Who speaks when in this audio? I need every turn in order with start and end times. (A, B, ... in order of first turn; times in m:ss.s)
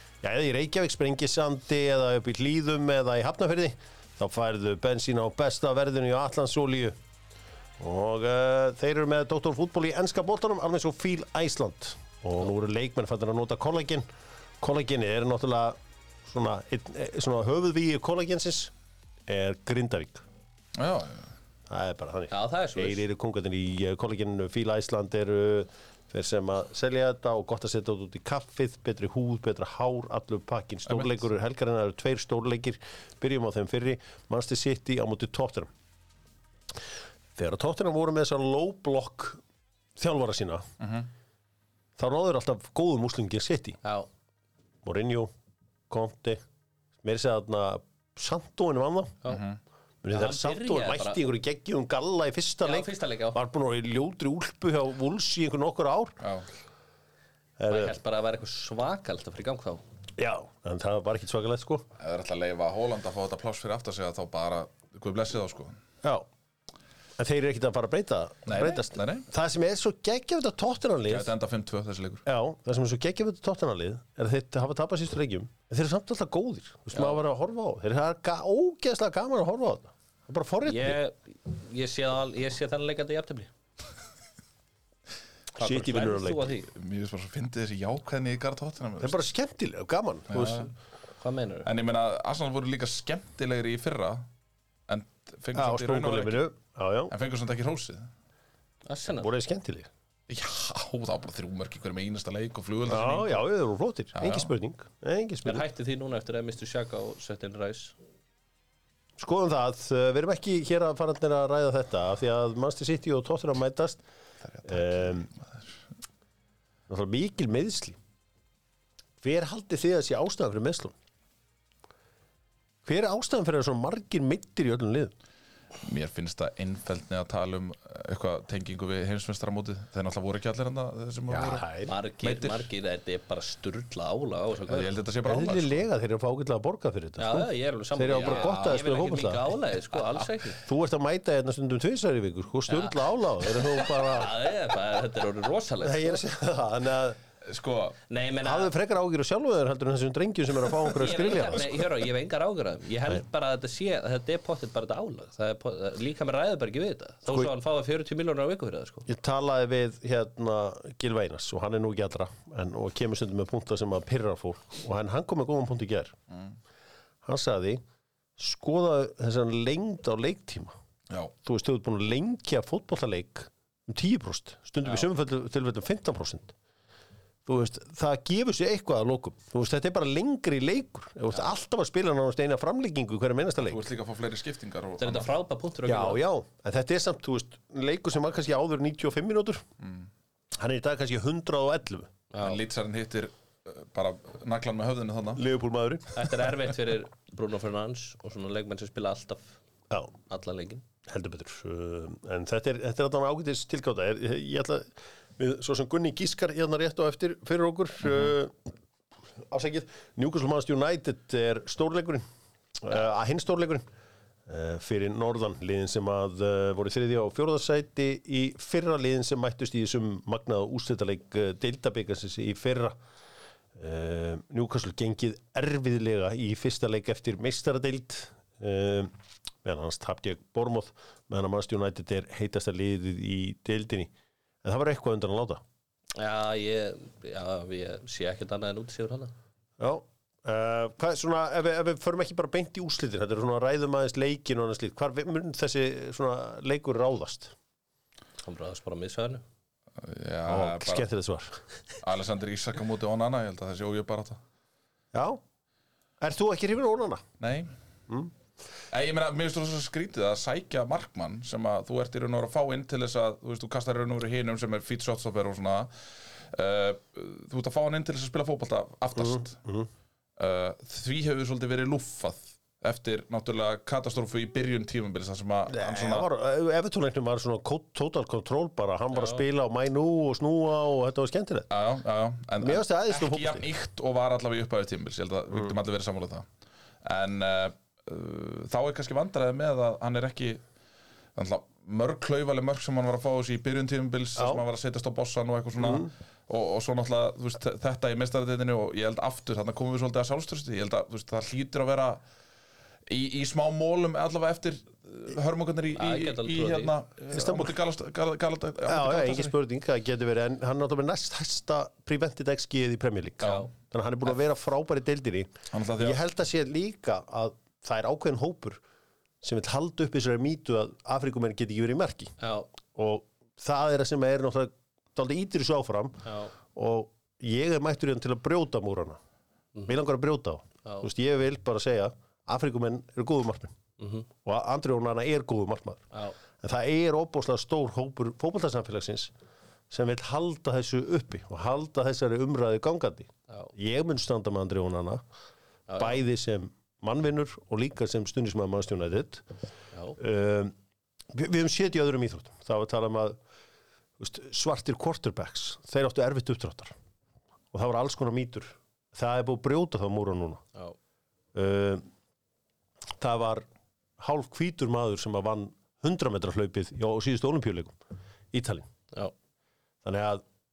0:00.2-0:07.0 A
0:07.8-0:14.0 A
0:14.6-0:18.7 A
0:19.3-0:20.2 A
0:20.7-0:21.3 B
0:21.7-0:35.7 A
0:22.3-0:23.0 C
0:30.9-0:31.2 B
0:37.4-0:39.4 A
0:40.0-0:40.7 A
0:40.8-0:41.1 B
0:42.0-0:43.8 A
0:43.8-0:44.1 C
0:44.8-0:45.3 A
0:45.9-0:46.4 A
0:47.0-0:49.2 A
0:49.3-0:49.6 B
0:50.0-0:56.2 A
0:50.1-0:51.2 C
0:52.6-0:53.4 C
0:56.2-0:56.4 B
0:57.6-0:58.0 A
0:57.7-0:59.8 C
1:00.2-1:01.9 A
1:02.0-1:05.8 B
1:06.0-1:06.3 A
1:07.2-1:11.3 A
1:08.5-1:09.3 B
1:11.1-1:12.2 B
1:12.3-1:21.0 A
1:16.9-1:17.2 C
1:20.6-1:23.5 C
1:25.6-1:26.5 A
1:25.6-1:26.7 C
1:26.7-1:29.2 B
1:29.0-1:30.7 A
1:30.3-1:30.7 B
1:31.2-1:31.7 C
1:31.6-1:34.3 B
1:34.9-1:36.4 B
1:35.6-1:37.1 A
1:37.1-1:38.1 B
1:38.9-1:39.3 C
1:39.2-1:39.9 A
1:40.3-1:43.4 B
1:42.9-1:45.6 A
1:44.1-1:44.5 B
1:45.4-1:48.0 C
1:49.2-1:54.0 A
1:54.5-1:55.7 B
1:54.6-1:55.3 A
1:56.9-1:58.0 A
1:59.2-2:01.0 A
2:02.8-2:05.1 A
2:05.8-2:11.7 B
2:11.3-2:11.9 A
2:11.9-2:14.9 C
2:12.2-2:12.7 B
2:14.7-2:15.8 B
2:15.2-2:19.6 A
2:17.2-2:20.6 C
2:18.1-2:18.7 B
2:20.4-2:24.3 A
2:22.7-2:23.0 C
2:23.6-2:26.2 C
2:25.8-2:27.2 A
2:27.4-2:28.0 B
2:28.1-2:28.7 C
2:28.4-2:31.8 A
2:30.9-2:39.1 C
2:39.1-2:46.1 A
2:47.2-2:47.8 A
2:48.4-2:50.7 A
2:51.4-2:56.5 A
2:57.4-3:03.8 A
3:03.6-3:05.3 B
3:05.0-3:06.2 C
3:05.9-3:09.6 A
3:09.8-3:10.1 B
3:10.6-3:12.1 A
3:12.3-3:12.6 C
3:12.4-3:15.4 B
3:15.4-3:16.3 A
3:16.1-3:19.6 C
3:20.3-3:20.8 C
3:21.0-3:28.7 A
3:29.4-3:32.2 A
3:32.8-3:33.8 A
3:34.5-3:43.0 A
3:43.8-3:49.1 A
3:49.6-3:54.1 A
3:54.6-3:55.6 A
3:56.2-3:59.3 C
3:59.8-4:07.5 A
4:08.4-4:09.4 C
4:10.0-4:11.0 B
4:10.4-4:11.6 A
4:12.0-4:14.4 B
4:15.1-4:15.4 A
4:16.2-4:17.2 A
4:17.4-4:17.7 B
4:18.9-4:25.9 B
4:26.5-4:29.6 B
4:29.2-4:29.9 A
4:30.4-4:36.3 B
4:35.7-4:41.7 A
4:39.1-4:39.4 C
4:41.7-4:46.4 B
4:42.6-4:43.7 A
4:47.0-4:50.6 B
4:51.4-5:02.2 B
4:54.4-4:54.6 A
4:55.8-4:56.1 A
5:03.1-5:09.5 B
5:06.0-5:06.9 C
5:07.3-5:07.7 A
5:08.8-5:18.8 A
5:13.4-5:13.7 B
5:15.7-5:16.2 B
5:19.4-5:22.3 A
5:22.4-5:22.7 C
5:22.9-5:29.2 A
5:26.3-5:26.5 C
5:29.9-5:33.7 A
5:34.0-5:34.3 C
5:34.4-5:39.3 A
5:39.9-5:45.2 A
5:45.9-5:46.2 C
5:46.0-5:49.4 A
5:50.2-5:50.7 A
5:51.3-5:53.4 A
5:54.2-5:57.0 A
5:57.7-6:00.6 A
6:01.5-6:02.0 A
6:03.2-6:03.7 A
6:04.2-6:08.0 A
6:08.5-6:08.9 A
6:10.0-6:10.4 A